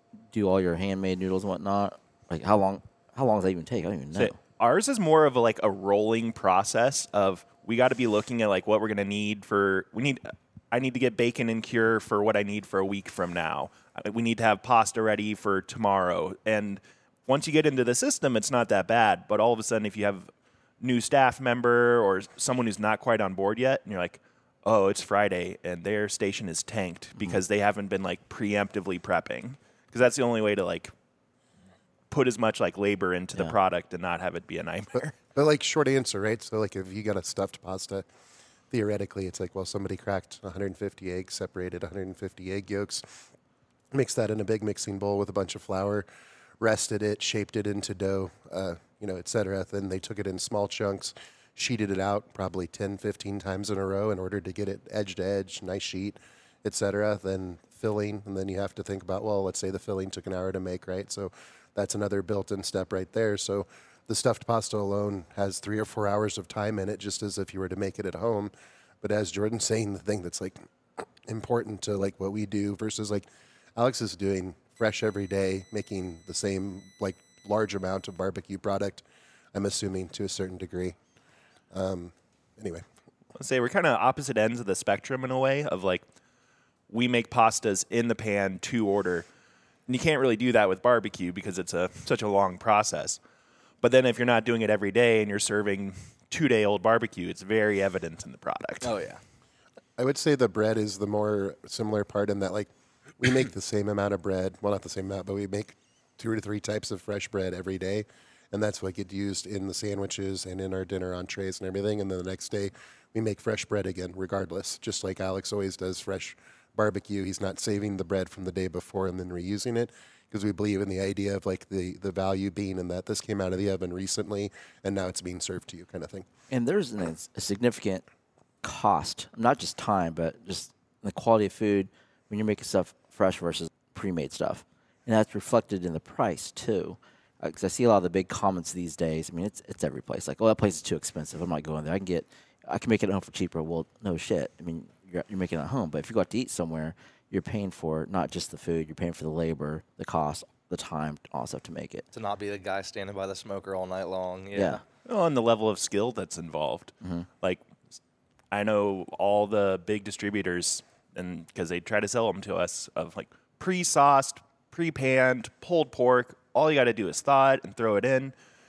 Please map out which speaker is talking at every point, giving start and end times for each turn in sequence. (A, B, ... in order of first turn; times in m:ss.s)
0:00.3-0:04.4 A
0:04.2-0:30.9 B
0:32.1-0:35.2 B
0:35.4-0:38.0 C
0:38.7-0:43.2 C
0:43.9-0:46.0 C
0:46.6-1:08.5 C
1:09.0-1:10.6 C
1:11.2-1:21.0 C
1:21.7-1:22.8 C
1:23.4-1:26.0 B
1:26.9-1:29.3 B
1:29.9-1:33.2 B
1:33.8-1:38.9 B
1:38.8-1:39.2 D
1:40.0-2:06.3 C
2:06.5-2:08.0 A
2:08.6-2:32.0 A
2:32.1-2:34.8 D
2:34.5-2:34.8 A
2:35.1-2:37.6 B
2:37.0-2:37.3 A
2:38.5-2:48.3 B